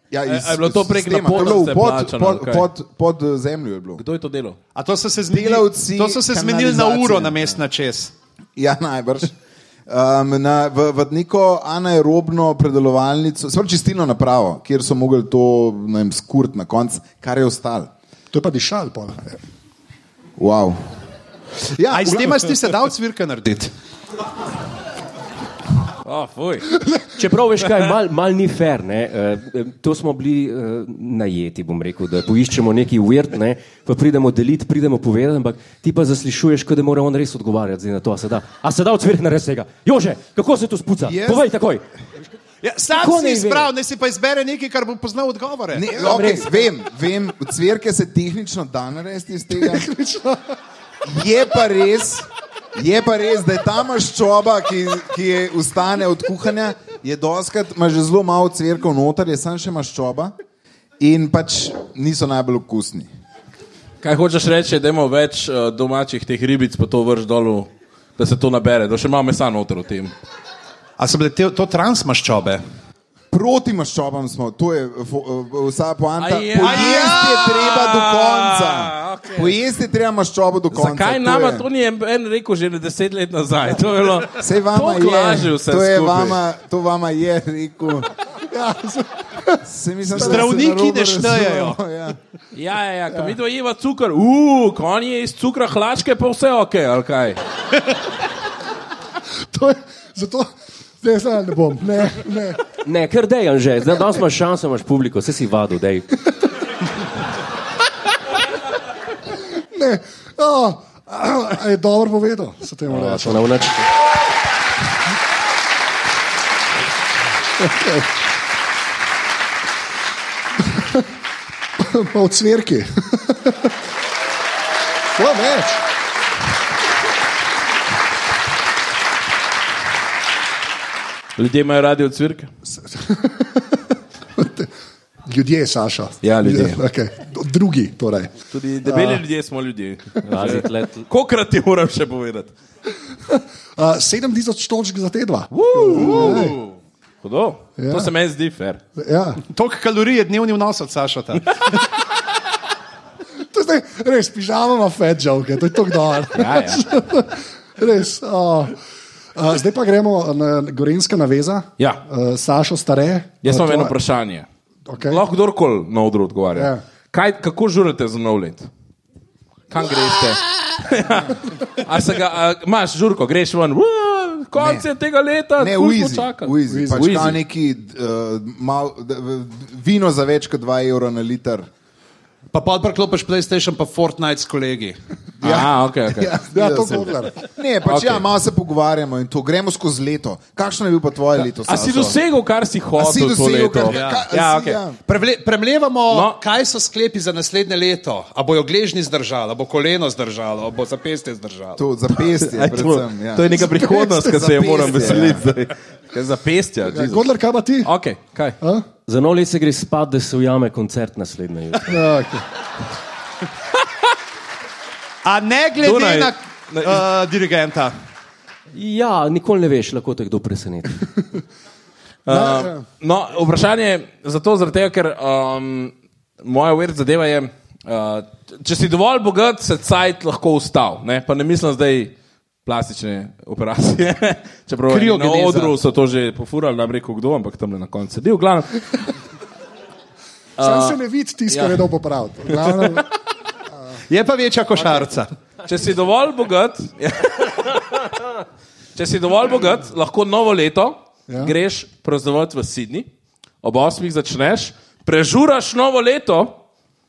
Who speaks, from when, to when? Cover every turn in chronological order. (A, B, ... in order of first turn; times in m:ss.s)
0:00.1-0:04.0 A
0:00.2-0:02.7 B
0:04.0-0:04.6 B
0:04.8-0:08.1 C
0:05.3-0:07.6 A
0:08.6-0:09.4 A
0:09.9-0:17.9 A
0:18.3-0:19.4 D
0:20.4-0:20.8 A
0:21.8-0:22.6 A
0:21.9-0:23.7 C
0:26.0-0:26.7 B
0:26.8-0:27.0 D
0:27.2-0:41.8 E
0:41.0-0:41.5 A
0:42.6-0:45.9 C
0:42.9-0:43.7 E
0:45.7-0:49.9 A
0:45.9-0:46.7 E
0:49.5-0:50.6 D
0:51.0-1:00.3 A
1:01.0-1:03.1 A
1:04.0-1:10.1 B
1:11.0-1:12.6 C
1:13.3-1:21.7 A
1:16.2-1:19.6 B
1:16.6-1:17.4 C
1:20.7-1:26.4 B
1:24.4-1:28.1 A
1:28.4-1:30.6 D
1:29.7-1:32.2 A
1:30.2-1:31.8 C
1:32.5-1:37.4 B
1:39.5-1:40.5 D
1:41.0-1:42.6 D
1:42.8-1:46.1 E
1:49.6-1:53.7 D
1:52.9-1:53.9 E
1:57.6-1:58.1 D
2:00.6-2:01.1 D
2:01.8-2:03.7 D
2:05.2-2:05.8 D
2:11.4-2:12.5 B
2:12.7-2:14.7 D
2:15.2-2:19.2 D
2:16.2-2:16.8 B
2:18.5-2:22.5 B
2:20.2-2:21.1 E
2:23.3-2:26.6 D
2:25.5-2:28.8 B
2:27.8-2:28.1 D
2:29.0-2:29.4 D
2:29.5-2:31.5 C
2:33.5-2:38.8 D
2:36.3-2:36.8 B
2:39.4-2:44.0 D
2:43.4-2:44.5 B
2:44.9-2:45.2 D
2:45.0-2:48.7 B
2:46.6-2:46.8 D
2:49.7-2:57.4 B
2:54.6-2:54.9 A
2:55.6-3:01.7 A
2:56.7-2:57.3 D
3:02.5-3:05.0 C
3:05.4-3:12.2 A
3:05.4-3:06.3 B
3:06.5-3:07.4 D
3:07.8-3:08.2 B
3:11.6-3:14.0 B
3:13.0-3:15.0 A
3:13.8-3:21.8 C
3:16.1-3:16.4 B
3:21.8-3:25.5 A
3:22.4-3:27.3 B
3:23.5-3:24.6 D
3:26.9-3:27.9 D
3:27.8-3:28.6 B
3:29.1-3:32.0 E
3:31.9-3:32.4 D
3:35.2-3:38.0 C
3:35.8-3:37.0 B
3:38.7-3:41.0 E
3:42.3-3:59.1 B
3:42.3-3:42.9 D
3:54.9-3:55.8 C
4:00.6-4:01.0 B
4:00.6-4:03.1 D
4:01.5-4:01.8 B
4:02.5-4:03.0 B
4:04.1-4:05.3 C
4:05.6-4:08.3 B
4:09.0-4:13.1 B
4:11.3-4:11.6 D
4:13.6-4:16.6 B